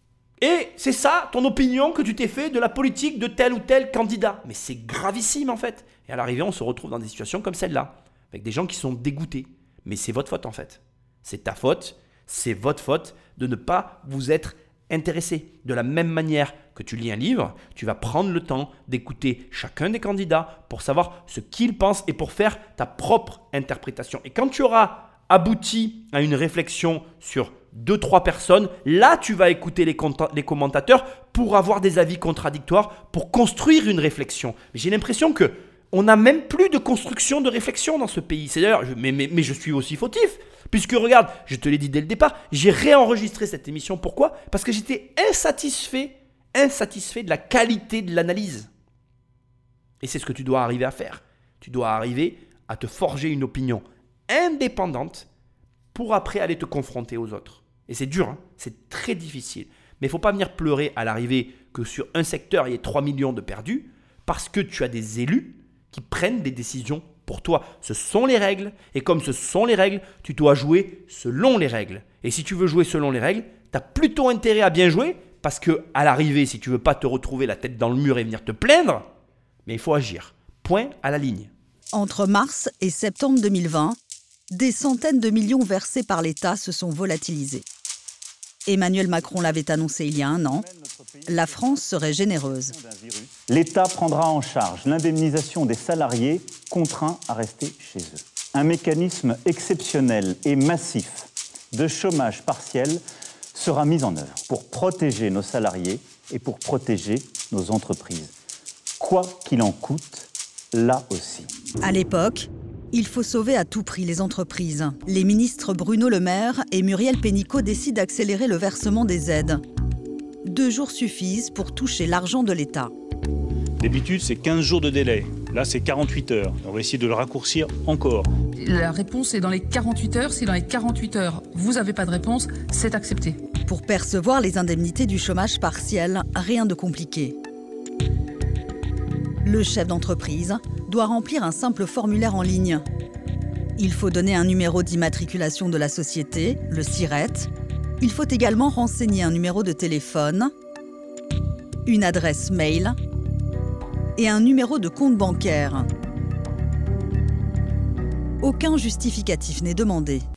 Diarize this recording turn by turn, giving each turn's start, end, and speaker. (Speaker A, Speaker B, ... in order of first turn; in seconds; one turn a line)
Speaker A: 0.4-48.7
Speaker A: 50.0-55.3
Speaker A: 55.9-79.1
Speaker A: 79.7-81.5
Speaker B: 81.9-84.0
Speaker B: 84.5-87.6
Speaker B: 88.7-90.7
Speaker C: 90.5-103.0
Speaker B: 91.3-92.8
Speaker C: 103.5-108.3
Speaker C: 109.0-111.5
Speaker B: 111.8-119.6
Speaker B: 120.4-122.9
Speaker D: 123.8-128.3
Speaker E: 128.6-133.4
Speaker B: 133.7-137.4
Speaker B: 139.4-142.8
Speaker B: 143.8-150.5
Speaker B: 151.9-152.9
Speaker B: 154.2-155.9
Speaker B: 158.4-160.2